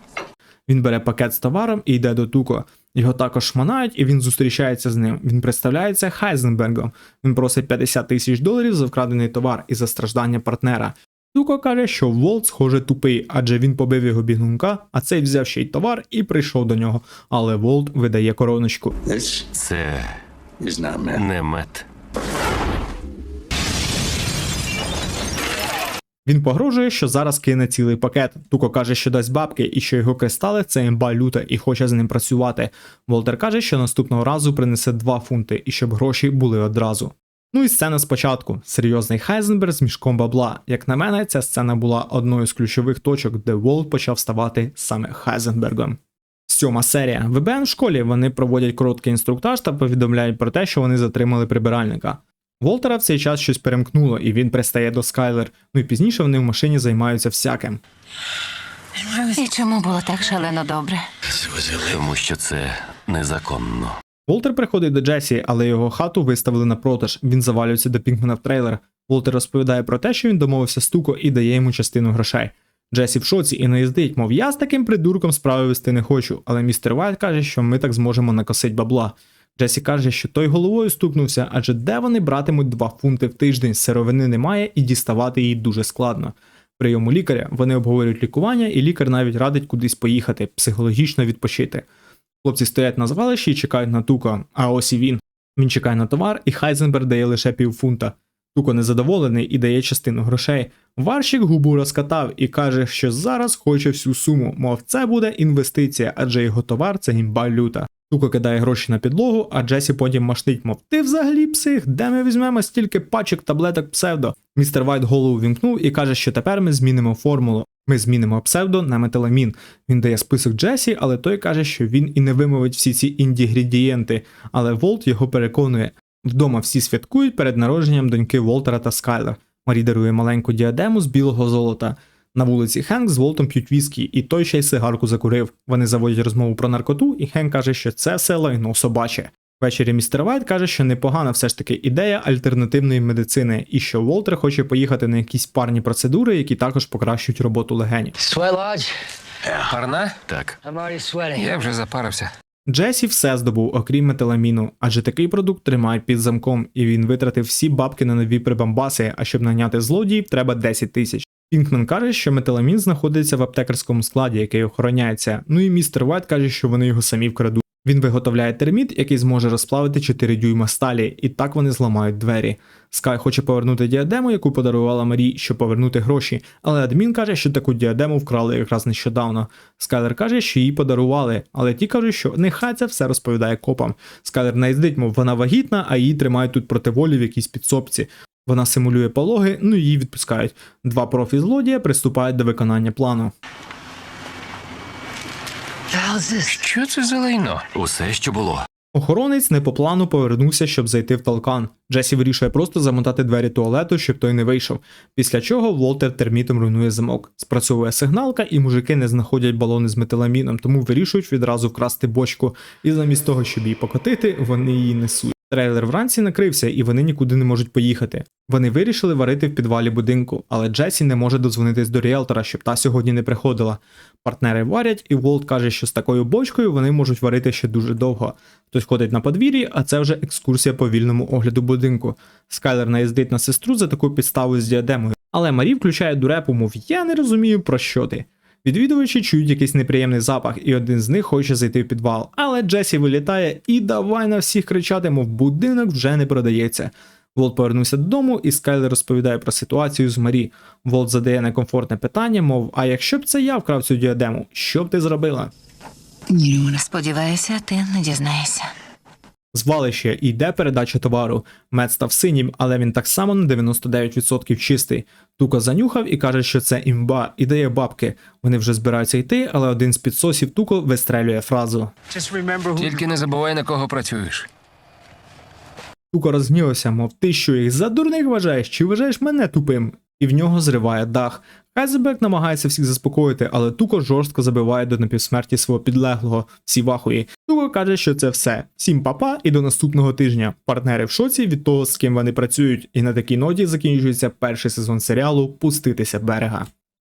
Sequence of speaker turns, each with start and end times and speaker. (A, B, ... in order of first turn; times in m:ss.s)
0:00.7-0:18.9 A
0:19.2-0:21.9 B
0:26.2-0:57.8 A
0:59.0-1:01.0 C
1:01.6-1:04.0 B
1:04.3-1:31.8 A
1:32.4-2:28.2 A
2:28.2-2:28.9 D
2:29.6-2:30.2 E
2:30.3-2:30.6 B
2:30.6-2:31.5 D
2:31.3-2:32.3 E
2:32.7-3:13.3 A
3:15.9-3:17.7 E
3:17.7-3:18.6 B
3:18.9-4:15.5 A
4:16.3-4:18.7 C
4:19.5-4:31.9 A
4:32.2-4:32.7 D
4:32.7-4:34.5 E
4:36.1-4:56.7 A